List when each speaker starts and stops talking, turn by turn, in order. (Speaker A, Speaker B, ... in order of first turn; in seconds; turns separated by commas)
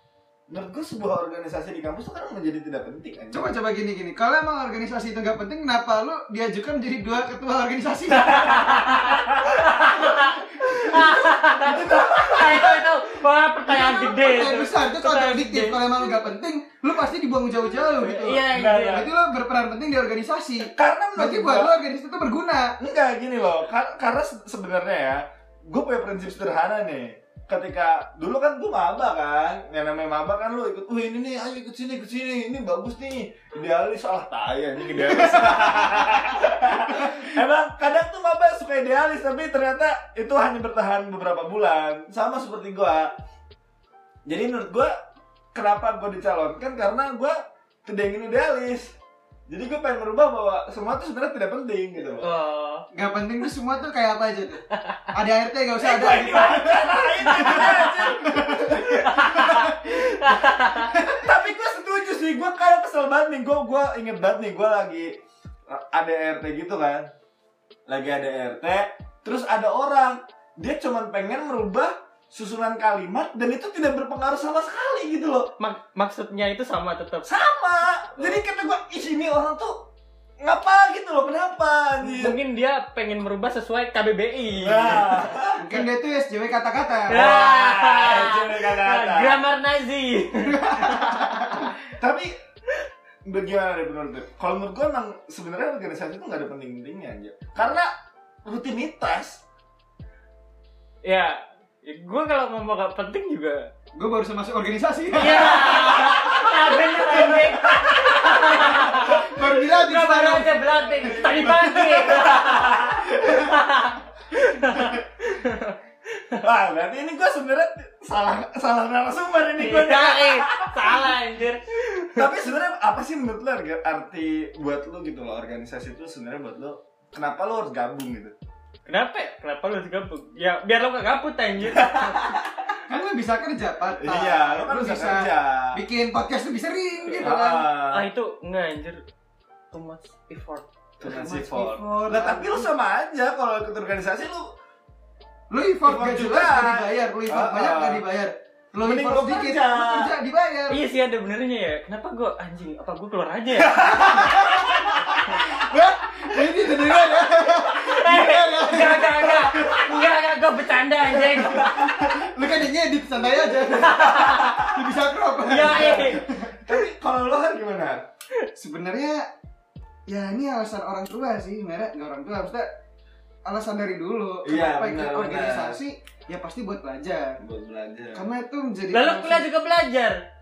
Speaker A: 0.5-3.5, Speaker B: 3.3-8.9, Speaker C: 8.2-16.1, Speaker A: 8.7-9.8, Speaker A: 10.6-12.9, Speaker B: 13.7-22.8, Speaker C: 18.0-19.1, Speaker A: 18.5-19.1, Speaker A: 20.7-21.7, Speaker A: 22.8-43.1, Speaker B: 35.1-37.3, Speaker A: 44.3-44.9, Speaker A: 45.5-49.0, Speaker A: 49.5-52.3, Speaker C: 52.2-52.9, Speaker B: 52.9-61.3, Speaker A: 55.8-59.7, Speaker C: 57.3-58.1, Speaker C: 59.0-61.0, Speaker A: 61.0-65.1, Speaker A: 65.7-67.1, Speaker A: 67.9-75.5, Speaker C: 75.6-77.3, Speaker A: 77.2-79.8, Speaker A: 80.4-82.4, Speaker C: 82.0-85.4, Speaker A: 84.5-85.6, Speaker B: 85.6-87.2, Speaker A: 87.1-89.4, Speaker C: 87.1-91.6, Speaker B: 90.4-91.7, Speaker A: 91.8-92.3, Speaker A: 93.2-97.9, Speaker A: 98.5-99.4, Speaker C: 101.0-103.7, Speaker B: 104.0-106.5, Speaker C: 105.2-116.4, Speaker A: 105.7-109.1, Speaker B: 107.1-107.4, Speaker B: 108.2-111.8, Speaker A: 111.0-113.5, Speaker B: 113.2-113.5, Speaker A: 116.4-121.2, Speaker C: 119.6-122.3, Speaker A: 122.1-128.3, Speaker C: 128.9-132.4, Speaker A: 131.6-132.5, Speaker B: 132.9-137.7, Speaker A: 134.0-135.8, Speaker A: 137.1-138.1, Speaker C: 137.9-139.0, Speaker C: 139.7-140.7, Speaker A: 141.0-144.5, Speaker B: 141.0-142.7, Speaker B: 145.5-150.8, Speaker A: 145.8-148.0, Speaker A: 148.8-150.1, Speaker C: 150.7-154.3, Speaker B: 153.7-160.0, Speaker A: 153.8-155.4, Speaker C: 157.2-162.0, Speaker B: 161.1-166.8, Speaker A: 161.4-162.3, Speaker A: 163.7-164.9, Speaker C: 163.8-164.5, Speaker C: 165.4-166.2, Speaker A: 165.6-168.1, Speaker B: 168.6-169.3, Speaker B: 170.1-172.7, Speaker B: 173.5-177.4, Speaker A: 174.4-175.8, Speaker A: 177.4-178.3, Speaker B: 178.1-179.5, Speaker C: 178.9-180.2